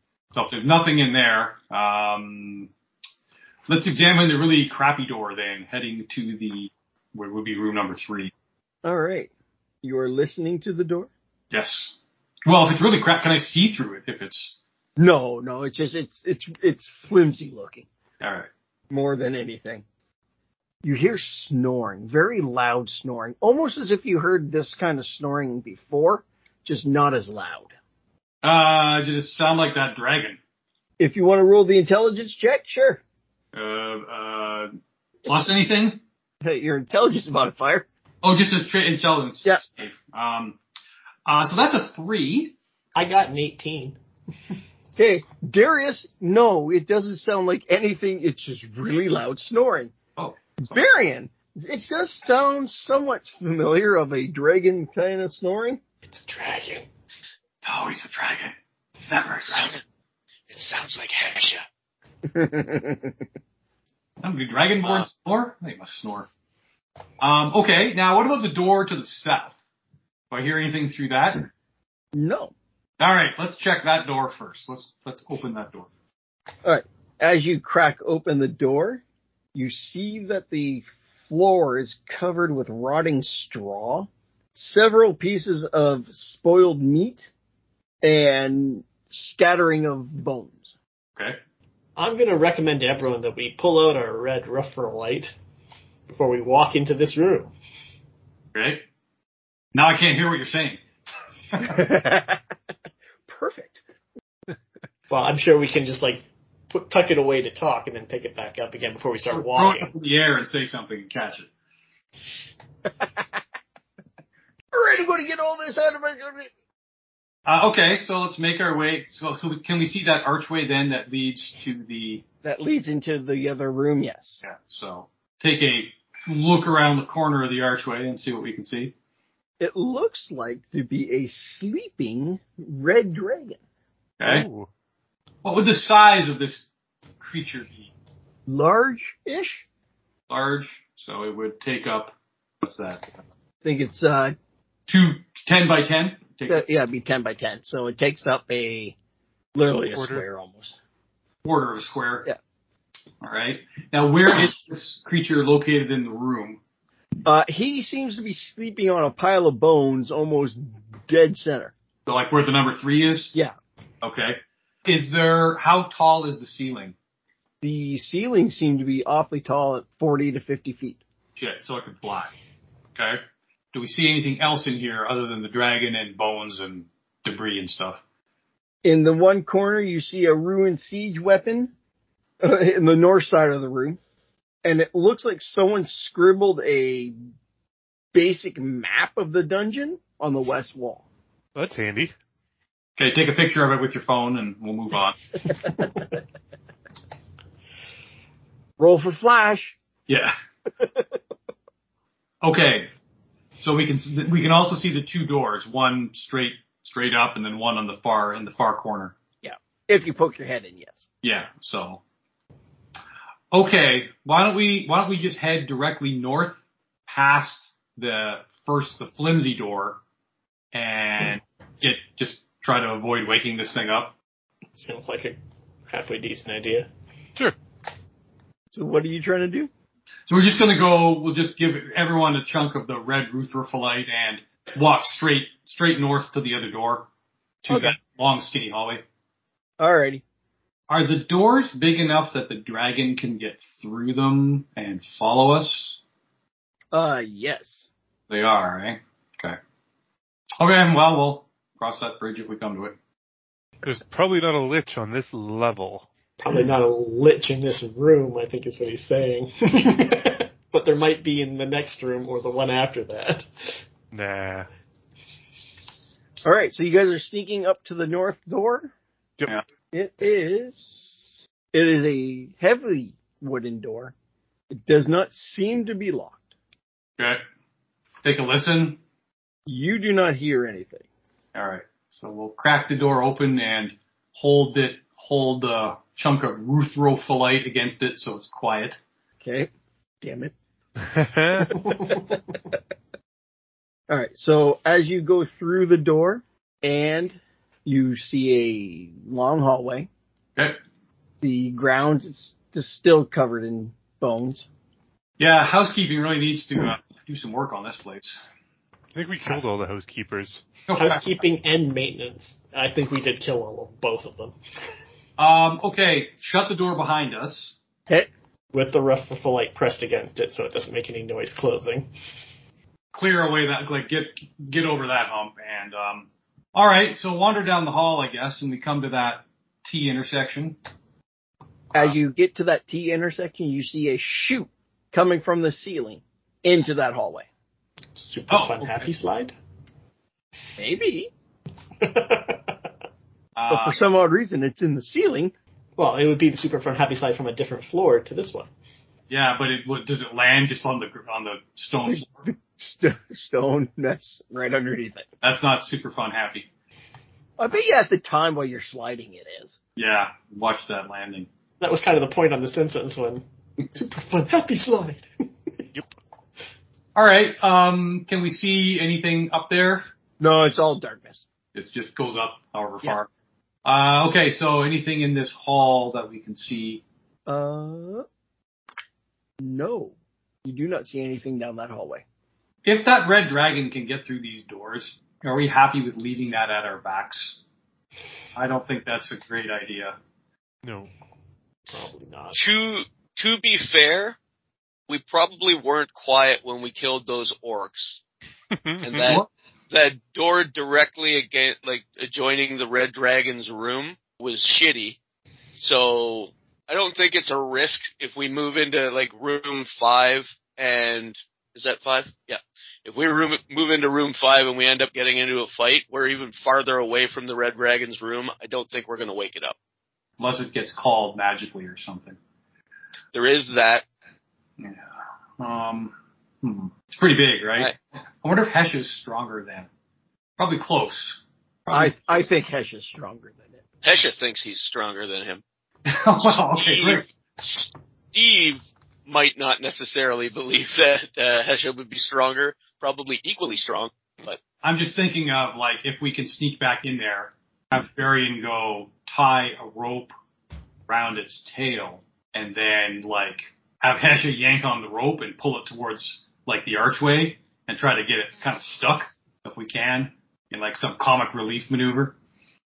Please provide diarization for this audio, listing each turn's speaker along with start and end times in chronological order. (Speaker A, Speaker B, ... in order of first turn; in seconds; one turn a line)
Speaker A: 0.3-2.7
Speaker A: 3.7-8.3
Speaker B: 8.8-9.3
Speaker B: 9.8-11.1
Speaker A: 11.5-14.6
Speaker B: 15.0-17.9
Speaker A: 18.2-18.5
Speaker B: 18.9-19.8
Speaker B: 20.8-27.7
Speaker A: 28.4-30.4
Speaker B: 31.0-33.0
Speaker A: 33.5-34.7
Speaker A: 35.2-36.0
Speaker B: 36.4-37.9
Speaker A: 38.2-40.6
Speaker A: 41.2-42.5
Speaker C: 42.9-44.0
Speaker B: 45.0-49.9
Speaker A: 50.2-50.9
Speaker B: 50.6-55.8
Speaker C: 56.1-56.8
Speaker A: 57.6-59.7
Speaker D: 60.5-61.6
Speaker B: 62.2-63.1
Speaker A: 64.2-66.3
Speaker D: 64.8-65.1
Speaker A: 67.2-69.5
Speaker A: 70.3-71.5
Speaker B: 72.1-72.5
Speaker A: 73.0-75.9
Speaker B: 76.6-79.0
Speaker B: 79.5-87.3
Speaker B: 88.0-90.7
Speaker C: 92.0-95.3
Speaker C: 96.1-97.5
Speaker A: 98.5-98.8
Speaker A: 99.7-100.8
Speaker B: 101.6-102.4
Speaker B: 103.3-103.8
Speaker C: 105.1-109.9
Speaker A: 109.3-111.5
Speaker B: 114.7-116.5
Speaker A: 117.5-122.2
Speaker B: 122.4-124.4
Speaker A: 124.4-128.9
Speaker B: 129.6-133.6
Speaker A: 134.2-134.4
Speaker E: 134.2-134.7
Speaker A: 135.4-136.7
Speaker A: 137.2-137.9
Speaker B: 138.4-139.6
Speaker A: 140.3-143.2
Speaker B: 143.6-144.3
Speaker A: 144.9-146.6
Speaker B: 146.5-148.9
Speaker B: 149.5-150.8
Speaker E: 149.8-150.2
Speaker A: 151.4-152.3
Speaker A: 153.2-156.6
Speaker B: 157.2-161.7
Speaker A: 162.1-163.3
Speaker A: 164.0-166.9
Speaker B: 167.6-171.0
Speaker A: 171.4-172.3
Speaker A: 172.9-173.2
Speaker A: 173.7-178.0
Speaker B: 178.8-181.7
Speaker B: 182.4-184.0
Speaker B: 184.6-187.1
Speaker B: 188.1-191.1
Speaker E: 191.6-192.1
Speaker A: 193.0-195.2
Speaker B: 198.8-199.8
Speaker A: 200.1-200.3
Speaker A: 202.4-202.9
Speaker A: 203.6-209.2
Speaker B: 209.4-211.0
Speaker A: 211.2-212.0
Speaker A: 213.5-220.0
Speaker A: 220.7-224.1
Speaker C: 224.7-226.9
Speaker B: 228.7-229.7
Speaker A: 230.3-237.1
Speaker A: 237.6-239.0
Speaker B: 237.7-237.9
Speaker B: 239.8-240.2
Speaker A: 240.9-246.0
Speaker B: 246.9-247.9
Speaker A: 248.3-249.6
Speaker A: 250.6-253.0
Speaker E: 253.8-256.1
Speaker C: 256.4-263.4
Speaker E: 264.1-264.7
Speaker B: 266.4-268.9
Speaker B: 269.9-274.1
Speaker B: 274.7-276.4
Speaker A: 278.2-279.0
Speaker B: 279.6-281.1
Speaker A: 281.5-289.0
Speaker B: 289.4-289.7
Speaker B: 290.2-290.5
Speaker E: 291.1-291.8
Speaker B: 294.1-300.1
Speaker B: 301.4-304.7
Speaker A: 305.4-308.4
Speaker E: 309.1-310.6
Speaker A: 310.9-311.2
Speaker C: 310.9-314.5
Speaker A: 315.4-317.8
Speaker C: 318.7-322.1
Speaker A: 323.1-330.8
Speaker B: 331.9-337.5
Speaker C: 338.2-339.5
Speaker A: 338.5-339.1
Speaker B: 340.8-341.3
Speaker C: 342.0-342.7
Speaker A: 343.5-344.0
Speaker B: 343.7-345.5
Speaker C: 346.0-348.7
Speaker A: 349.3-352.5
Speaker B: 352.1-355.3
Speaker A: 355.4-356.7
Speaker B: 357.6-359.8
Speaker A: 359.9-361.5
Speaker C: 361.8-365.2
Speaker A: 367.1-370.1
Speaker B: 370.4-371.4
Speaker A: 371.7-373.3
Speaker A: 373.8-377.0
Speaker B: 377.5-378.2
Speaker B: 379.6-382.2
Speaker A: 382.8-387.6
Speaker A: 388.5-390.1
Speaker E: 390.8-391.1
Speaker C: 391.9-392.6
Speaker D: 392.5-394.4
Speaker D: 395.1-398.2
Speaker E: 398.7-399.3
Speaker D: 399.0-405.2
Speaker A: 399.2-399.5
Speaker D: 405.8-419.7
Speaker A: 420.4-422.4
Speaker D: 423.3-424.0
Speaker A: 424.8-429.9
Speaker A: 430.6-432.2
Speaker B: 431.9-433.8
Speaker D: 434.0-435.6
Speaker A: 436.1-437.2
Speaker D: 436.5-444.6
Speaker A: 444.8-450.3
Speaker A: 451.1-462.4